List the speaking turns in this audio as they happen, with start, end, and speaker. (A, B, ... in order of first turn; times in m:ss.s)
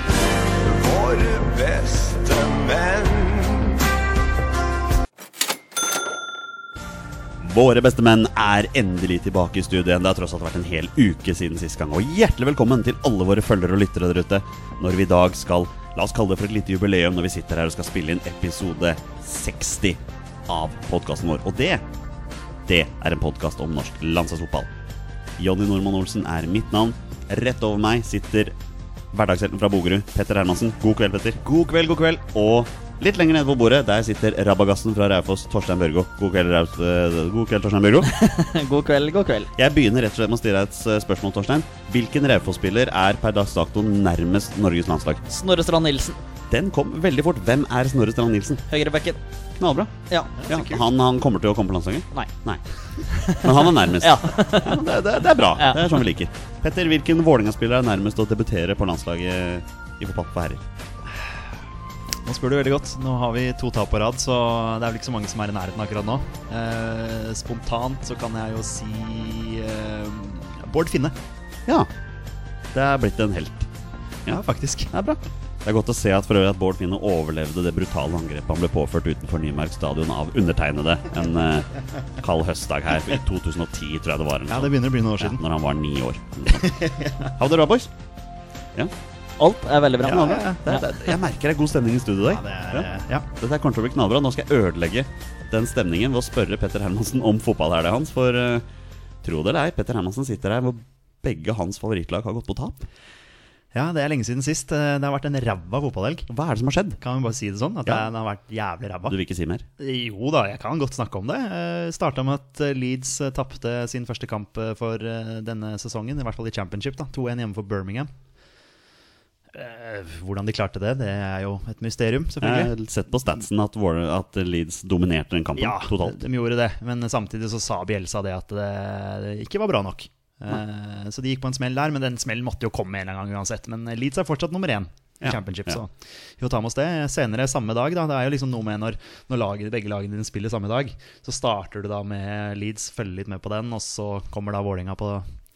0:00.7-0:03.3 A
0:07.4-0:21.8 B
0:22.7-0:24.7 B
0:25.4-0:28.6 B
0:29.1-0:31.4 B
0:31.4-0:32.2 C
0:32.2-0:38.1 B
0:38.1-0:39.5 D
0:39.6-0:45.2 B
0:45.3-0:46.2 D
0:46.5-0:48.6 B
0:48.7-0:49.2 D
0:49.6-0:49.9 B
0:50.4-0:50.8 C
0:50.4-0:52.6 B
0:53.1-0:54.8 D
0:53.2-1:00.6 B
0:55.6-0:56.0 D
1:02.2-1:11.1 C
1:12.7-1:13.7 B
1:14.2-1:27.9 B
1:14.3-1:14.9 C
1:24.5-1:25.4 C
1:26.5-1:27.3 C
1:29.4-1:30.8 D
1:30.0-1:38.7 B
1:30.0-1:30.6 C
1:32.3-1:33.3 C
1:39.2-1:42.9 B
1:43.7-1:46.2 C
1:46.3-1:47.0 B
1:47.0-1:49.2 C
1:49.1-1:49.7 B
1:49.8-1:58.1 C
1:59.5-2:02.7 C
2:02.4-2:06.2 B
2:05.6-2:25.2 C
2:15.2-2:15.8 B